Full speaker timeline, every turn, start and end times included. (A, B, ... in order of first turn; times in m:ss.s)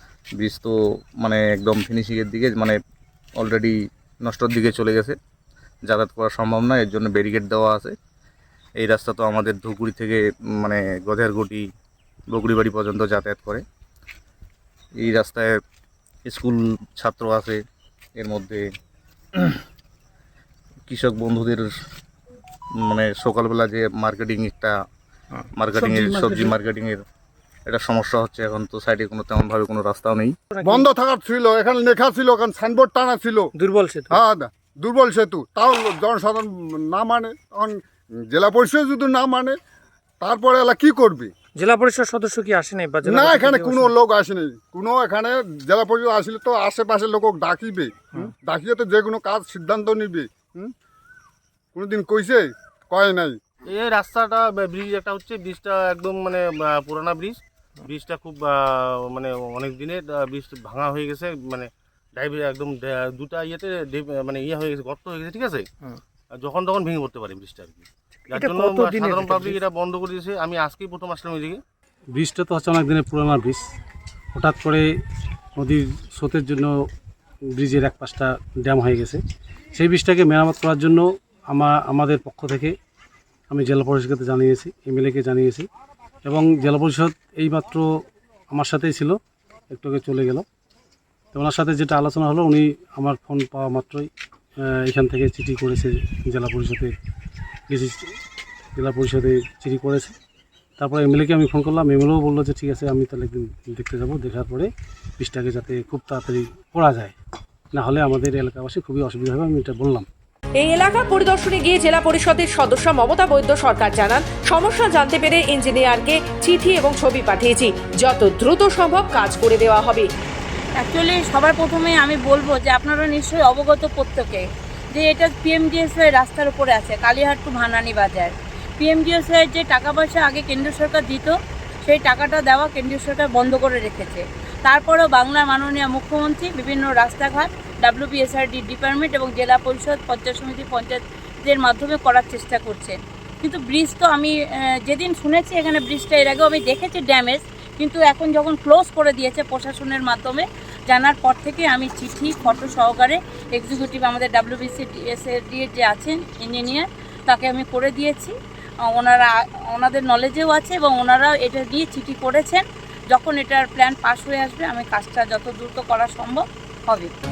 0:00.4-0:02.8 A
0:03.4-0:05.2 A
0:05.9-0:07.9 A
0:08.8-0:11.7 A
0:12.3-0:13.6 A
0:15.0-0:15.5 A
0:16.2-0:17.6 A
0:18.2-0:18.7 A
0:20.9-0:21.7 A
0:22.8-0:24.7 A
0:25.6-0:27.0 A
0:25.8-0:26.5 B
0:27.7-0:30.3 A
0:30.5-0:30.8 B
0:30.6-0:33.5 C
0:33.6-0:34.2 B
0:34.1-0:39.6 C
0:40.2-0:41.3 C
0:41.6-0:43.9 B
0:43.0-0:50.7 C
0:51.7-0:53.4 C
0:53.6-1:05.6 D
1:06.3-1:11.6 D
1:08.3-1:09.6 B
1:12.1-1:13.6 E
1:14.3-1:14.9 E
1:15.6-1:16.7 E
1:17.5-1:19.2 E
1:19.7-1:22.7 E
1:23.5-1:25.6 E
1:26.2-1:27.9 E
1:28.5-1:29.2 E
1:29.7-1:30.4 E
1:31.3-1:34.1 E
1:34.6-1:36.9 E
1:37.7-1:38.0 E
1:38.8-1:40.1 E
1:40.8-1:47.1 E
1:47.7-1:50.0 E
1:50.6-2:00.1 F
2:00.8-2:24.3 G
2:24.9-2:38.3 G
2:38.9-2:47.1 G